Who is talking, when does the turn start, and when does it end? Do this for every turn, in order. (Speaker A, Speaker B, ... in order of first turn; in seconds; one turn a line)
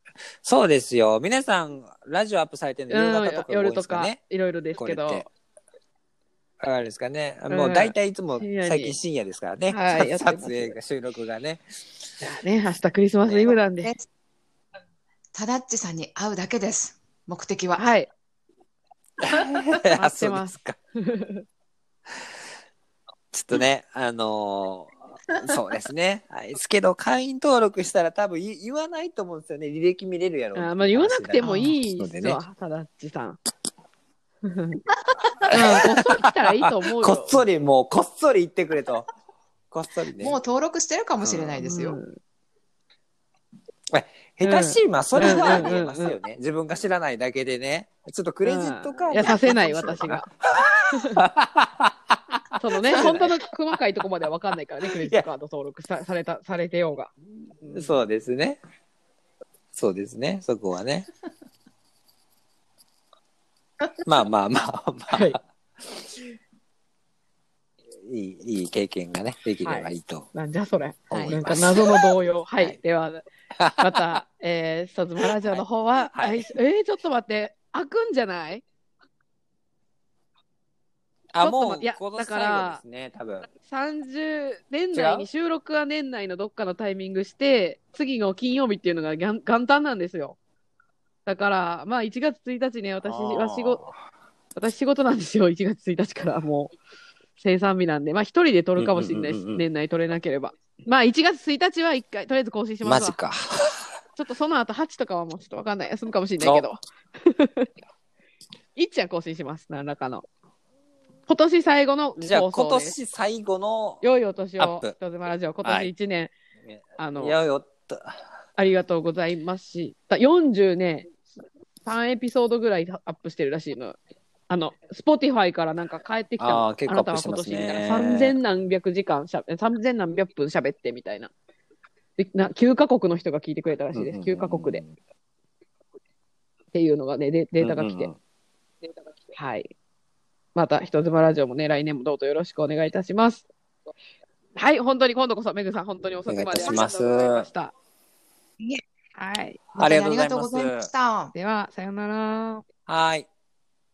Speaker A: 0.4-4.2
Speaker B: 2.9-5.3
Speaker A: 4.8-5.3
Speaker A: 6.6-11.6
Speaker B: 7.5-9.0
Speaker B: 9.7-10.8
Speaker B: 12.2-13.9
Speaker C: 13.5-14.1
Speaker C: 15.3-17.9
Speaker B: 17.8-18.1
Speaker A: 19.2-20.8
Speaker B: 19.9-21.4
Speaker A: 23.3-32.4
Speaker B: 30.6-33.4
Speaker C: 31.4-31.8
Speaker B: 34.4-34.8
Speaker B: 35.5-37.5
Speaker A: 35.5-39.1
Speaker A: 39.7-40.4
Speaker C: 40.2-42.0
Speaker A: 41.2-41.6
Speaker B: 41.6-42.1
Speaker A: 43.9-53.3
Speaker B: 44.4-46.2
Speaker C: 45.2-45.8
Speaker B: 48.5-50.3
Speaker C: 49.2-50.1
Speaker B: 50.9-51.2
Speaker B: 52.6-58.0
Speaker A: 54.9-55.3
Speaker A: 57.7-58.6
Speaker A: 59.7-61.1
Speaker A: 64.0-66.1
Speaker B: 65.1-65.4
Speaker A: 68.0-70.3
Speaker B: 69.6-73.2
Speaker A: 71.1-72.8
Speaker A: 73.5-74.2
Speaker B: 73.8-78.6
Speaker A: 75.2-76.5
Speaker A: 81.3-83.5
Speaker B: 81.4-82.8
Speaker B: 83.6-90.4
Speaker A: 84.9-85.3
Speaker B: 91.3-93.8
Speaker A: 93.0-94.0
Speaker B: 94.5-96.7
Speaker B: 97.4-103.2
Speaker A: 98.8-99.6
Speaker A: 102.8-103.9
Speaker B: 104.2-107.7
Speaker A: 106.4-106.7
Speaker B: 108.8-110.3
Speaker B: 111.3-113.0
Speaker A: 112.2-114.0
Speaker B: 114.0-116.3
Speaker A: 114.6-115.0
Speaker A: 115.6-115.9
Speaker A: 116.6-118.2
Speaker B: 117.0-117.4
Speaker B: 118.6-121.1
Speaker B: 121.8-124.0
Speaker B: 124.5-131.3
Speaker A: 126.4-128.4
Speaker B: 132.2-134.8
Speaker A: 133.9-134.9
Speaker B: 136.7-138.1
Speaker A: 137.6-138.2
Speaker B: 139.3-139.7
Speaker B: 140.6-143.5
Speaker B: 144.6-147.7
Speaker A: 146.3-147.5
Speaker B: 149.2-149.7
Speaker A: 149.8-150.9
Speaker C: 149.8-151.3
Speaker B: 151.3-152.6
Speaker A: 152.9-153.3